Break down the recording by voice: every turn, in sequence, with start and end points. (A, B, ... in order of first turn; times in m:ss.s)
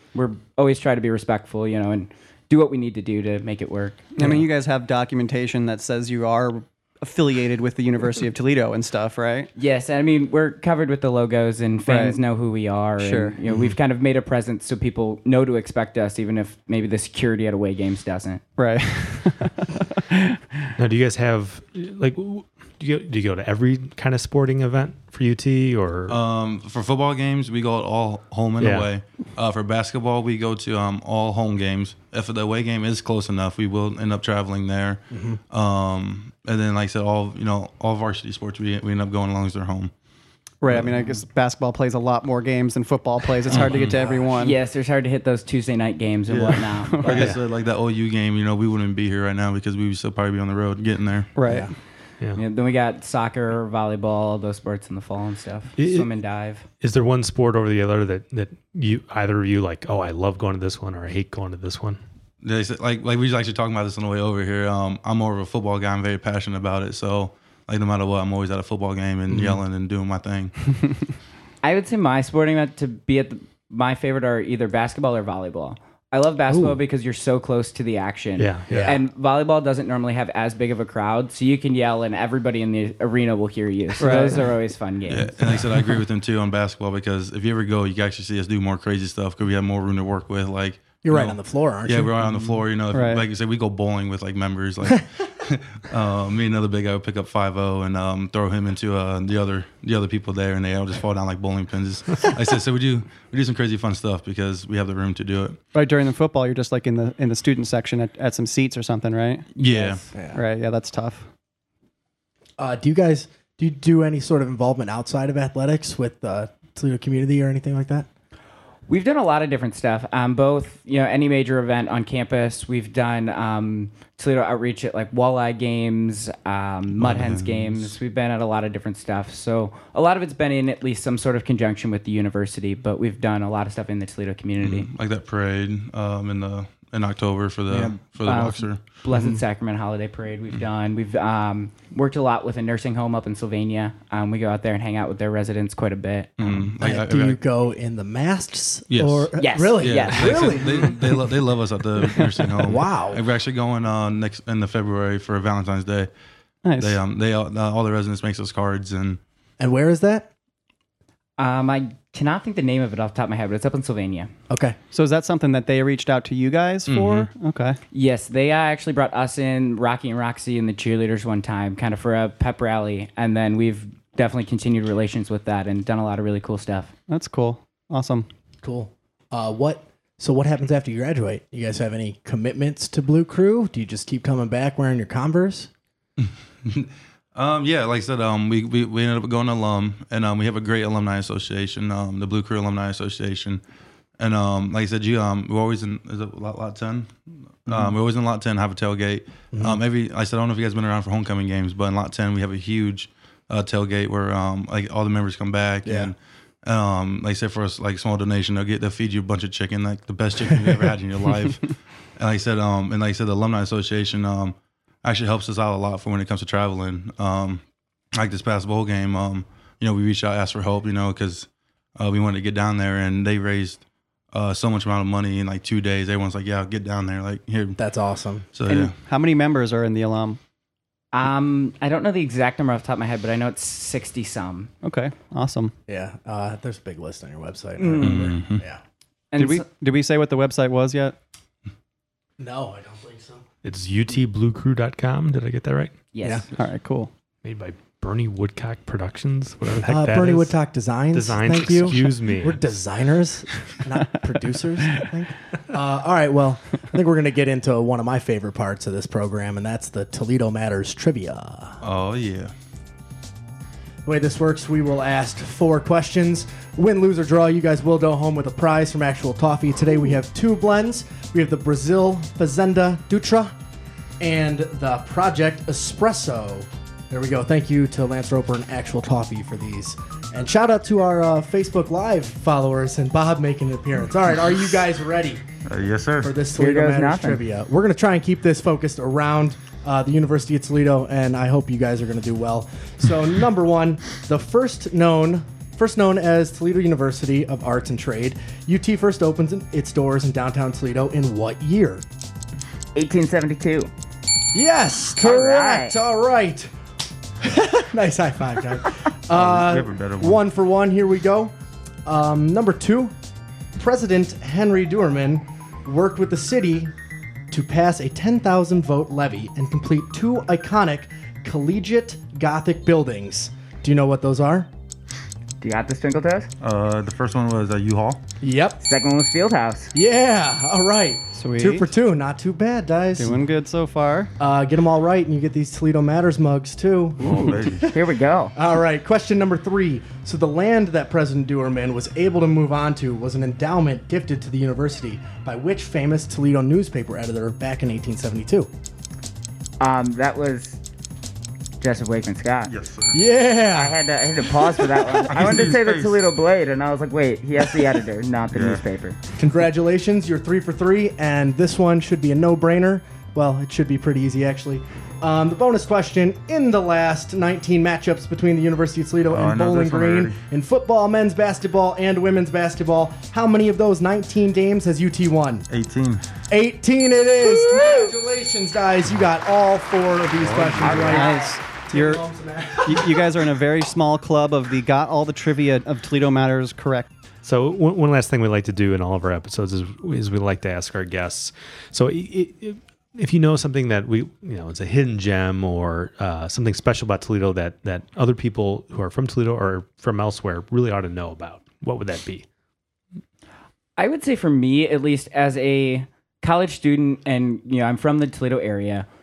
0:00.1-0:04.2 A
0:04.2-0:09.5 B
0:09.6-0:18.4 A
0:11.9-0:12.2 B
0:13.0-0:13.4 B
0:18.6-0:20.7 B
0:20.8-0:26.2 C
0:26.1-0:39.9 D
0:28.6-0:28.9 C
0:35.1-0:35.4 E
0:40.6-0:44.6 B
0:43.5-0:44.0 D
0:44.3-0:47.3 A
0:46.3-0:51.3 D
0:46.9-0:47.3 B
0:51.4-0:51.7 B
0:51.5-0:51.7 E
0:52.4-0:56.7 A
0:55.8-0:56.1 C
0:56.8-1:02.0 C
1:02.4-1:10.6 D
1:11.6-1:25.4 A
1:18.4-1:19.0 C
1:18.7-1:19.0 E
1:24.0-1:24.4 B
1:25.1-1:45.6 D
1:31.0-1:32.1 E
1:32.9-1:33.2 B
1:45.7-1:49.5 B
1:49.6-1:50.0 D
1:50.1-1:50.4 E
1:50.3-1:51.3 B
1:52.6-1:58.1 E
1:58.9-2:14.9 A
2:07.0-2:07.9 D
2:14.6-2:18.8 D
2:17.7-2:26.5 A
2:19.1-2:19.4 E
2:26.4-2:27.4 D
2:26.8-2:31.1 E
2:28.9-2:36.1 D
2:29.4-2:30.5 A
2:32.6-2:33.2 E
2:36.6-2:37.0 B
2:36.8-2:39.2 D
2:39.6-2:40.3 E
2:41.4-2:44.3 A
2:44.5-2:44.8 E
2:44.9-2:47.8 B
2:46.9-2:47.3 D
2:47.9-2:56.9 A
2:57.1-2:58.3 B
2:58.6-3:05.7 E
3:06.2-3:13.6 D
3:14.2-3:37.6 D
3:19.5-3:19.8 E
3:25.8-3:26.1 E
3:38.1-3:47.8 D
3:47.8-3:48.5 E
3:48.5-3:48.9 D
3:48.7-3:50.4 B
3:51.1-3:54.7 A
3:54.8-3:55.7 B
3:55.9-3:58.8 E
3:57.8-3:58.4 A
3:58.0-3:58.6 D
3:59.3-3:59.7 A
3:59.4-4:01.2 B
4:02.4-4:03.4 E
4:03.6-4:06.0 C
4:06.1-4:06.5 A
4:06.5-4:07.1 B
4:07.4-4:10.5 C
4:09.8-4:21.8 E
4:11.1-4:12.6 C
4:21.8-4:22.5 D
4:24.0-4:33.6 E
4:34.2-4:45.4 E
4:45.7-4:46.3 D
4:46.2-5:02.0 E
4:46.5-4:47.4 A
5:03.0-5:03.9 A
5:04.5-5:06.7 E
5:05.2-5:06.0 A
5:07.4-5:11.5 E
5:09.3-5:10.4 D
5:12.0-5:13.1 E
5:13.8-5:16.9 E
5:17.5-5:24.7 E
5:25.6-5:26.5 A
5:26.6-5:28.2 D
5:28.4-5:28.8 E
5:28.8-5:29.9 A
5:29.9-5:33.4 E
5:31.4-5:31.9 B
5:33.2-5:34.3 B
5:34.4-5:38.0 E
5:37.2-5:37.9 D
5:37.8-5:38.5 A
5:38.5-5:48.7 E
5:49.8-5:50.8 A
5:51.8-5:52.7 A
5:52.7-5:53.2 D
5:53.1-5:54.0 E
5:53.7-5:59.2 A
5:55.3-5:56.3 D
5:58.5-5:58.8 D
5:59.4-6:15.6 E
6:09.3-6:10.4 D
6:15.7-6:16.3 D
6:16.5-6:23.4 E
6:20.4-6:21.3 D
6:20.8-6:21.5 A
6:21.1-6:22.2 B
6:22.8-6:27.1 B
6:27.4-6:42.5 C
6:44.0-6:49.1 A